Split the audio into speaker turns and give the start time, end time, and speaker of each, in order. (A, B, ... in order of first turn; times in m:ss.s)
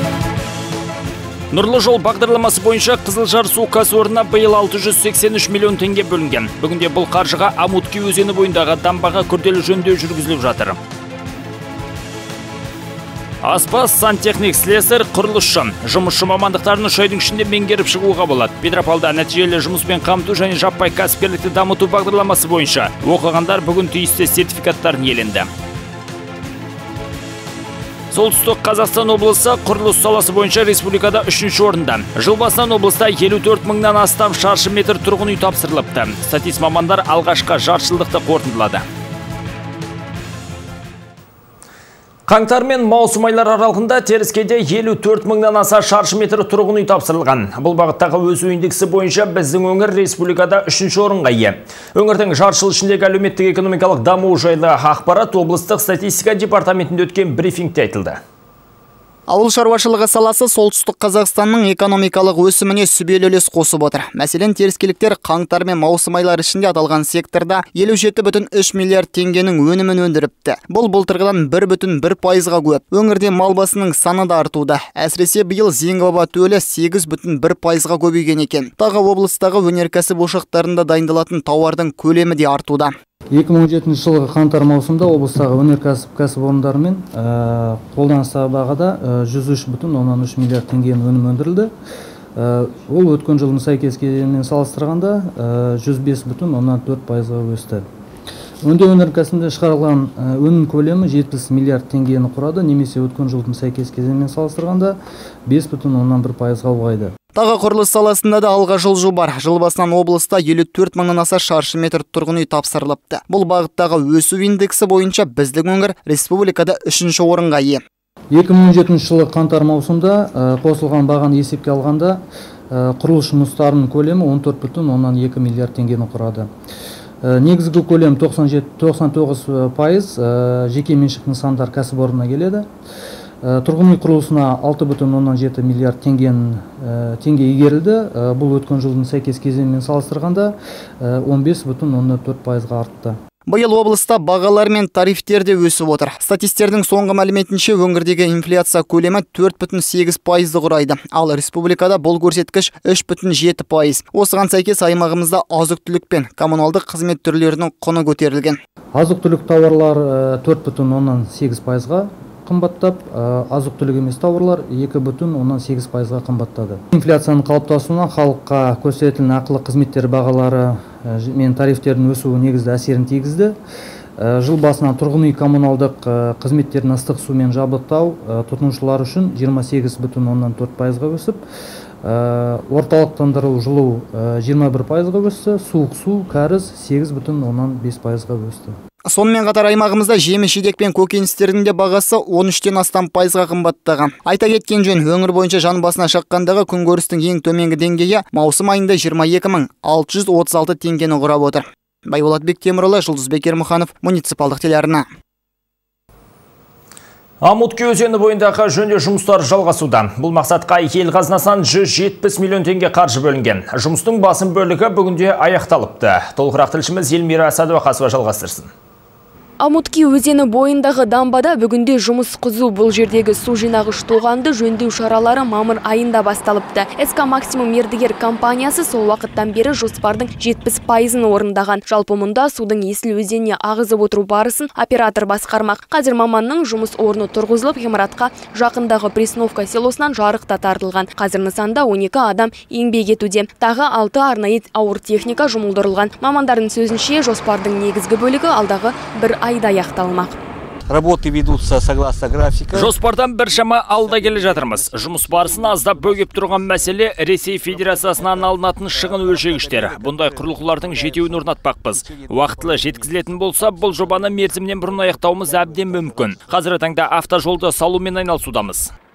0:01.5-0:10.8 A
0:13.4-0:25.5 A
0:28.1-0:38.8 A
0:42.3-0:58.2 A
0:59.3-1:22.9 B
1:23.3-1:31.7 C
1:32.4-1:37.8 C
1:38.6-1:47.1 C
1:47.4-1:57.8 B
1:58.3-2:02.2 C
2:02.7-2:06.5 C
2:07.2-2:12.7 C
2:13.4-2:23.2 C
2:23.5-2:38.6 B
2:39.0-2:53.6 C
2:54.2-3:01.4 C
3:02.0-3:08.8 C
3:09.1-3:25.0 B
3:27.4-3:38.7 A
3:39.6-4:10.4 D
4:10.9-4:12.9 E
4:12.7-4:28.9 A